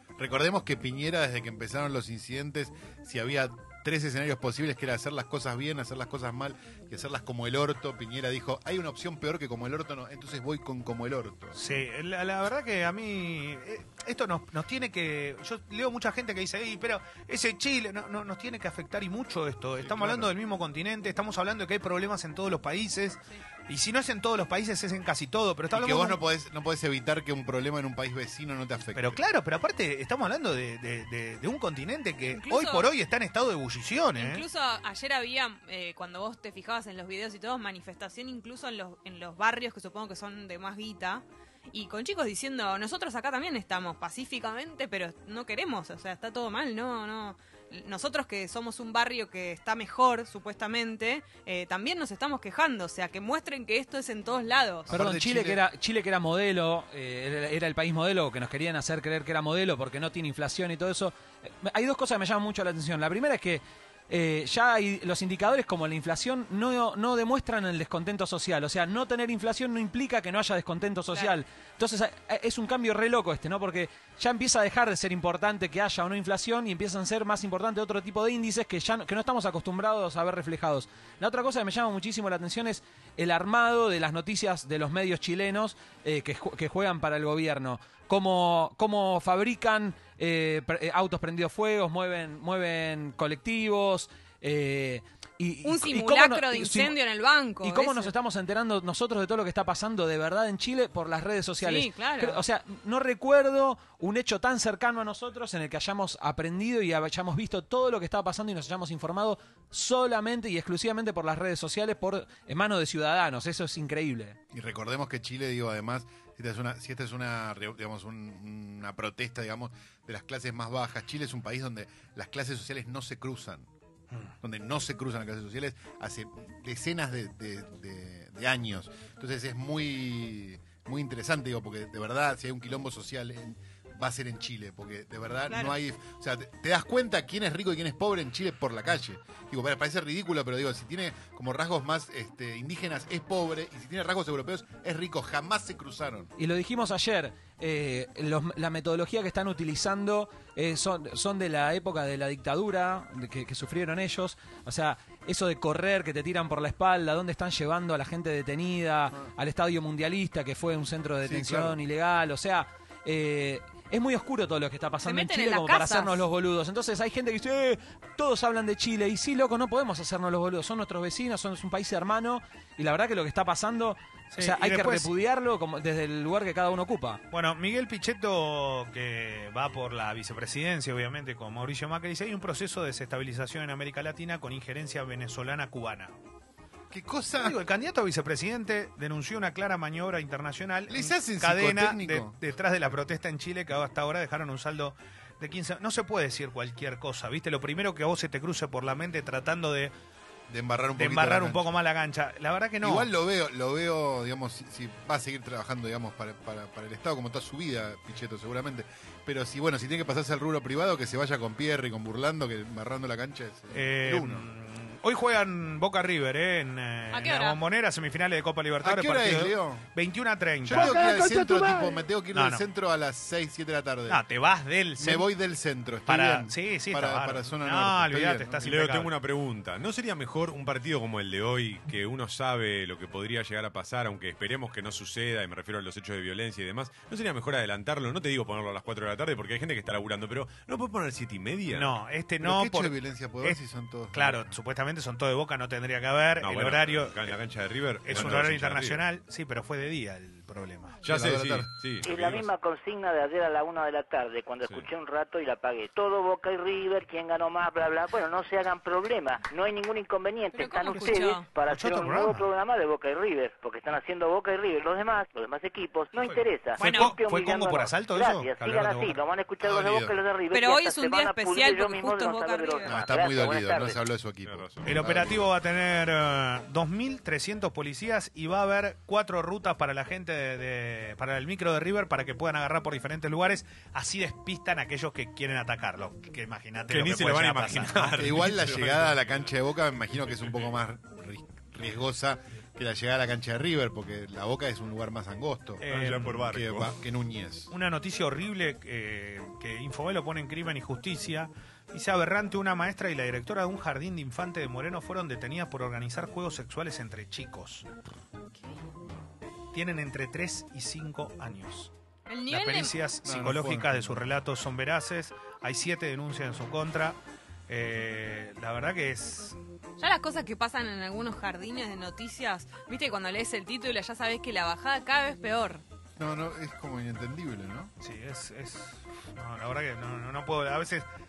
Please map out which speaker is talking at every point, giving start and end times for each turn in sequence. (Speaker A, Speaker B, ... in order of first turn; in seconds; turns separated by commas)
Speaker A: 0.2-11.6, Speaker B: 11.6-26.2, Speaker A: 19.9-20.3, Speaker A: 25.7-29.2, Speaker B: 28.9-34.4, Speaker C: 32.3-32.9, Speaker C: 34.1-54.9, Speaker A: 54.9-55.6, Speaker D: 54.9-97.0, Speaker C: 95.6-98.1, Speaker D: 97.6-114.4, Speaker C: 101.6-102.4, Speaker A: 114.5-123.7, Speaker A: 124.4-146.3, Speaker C: 135.5-135.8, Speaker D: 146.4-177.2, Speaker A: 161.2-161.8, Speaker C: 165.1-166.2, Speaker B: 174.3-175.1, Speaker B: 177.3-186.1, Speaker A: 186.9-187.6, Speaker B: 187.4-199.9, Speaker A: 190.9-192.4, Speaker A: 200.5-201.7, Speaker B: 201.0-203.1, Speaker A: 202.8-214.5, Speaker B: 213.7-221.1, Speaker C: 217.1-217.6, Speaker A: 218.8-219.8, Speaker A: 220.6-224.2, Speaker B: 222.3-222.6, Speaker B: 224.1-225.3, Speaker A: 225.0-228.7, Speaker B: 226.1-229.1, Speaker E: 228.6-241.9, Speaker B: 241.7-243.6, Speaker A: 242.4-244.6, Speaker B: 244.1-247.3, Speaker E: 246.4-249.0, Speaker B: 248.1-251.0, Speaker A: 251.1-251.7, Speaker E: 251.1-252.4, Speaker F: 252.0-274.0, Speaker C: 260.5-261.5, Speaker B: 261.7-262.5, Speaker B: 266.1-269.2, Speaker C: 266.8-267.2, Speaker A: 269.6-270.1, Speaker C: 270.5-273.0, Speaker A: 272.9-275.4, Speaker E: 274.4-275.3, Speaker B: 274.9-288.2, Speaker E: 286.9-289.5, Speaker A: 288.2-295.8, Speaker E: 290.3-290.7, Speaker B: 295.8-296.5, Speaker E: 295.9-296.9, Speaker A: 296.4-297.7, Speaker B: 297.7-307.9, Speaker B: 309.7-311.9, Speaker C: 312.3-312.9, Speaker B: 312.5-319.6, Speaker A: 313.2-314.3, Speaker C: 320.0-325.8, Speaker A: 326.2-327.9, Speaker B: 328.0-331.1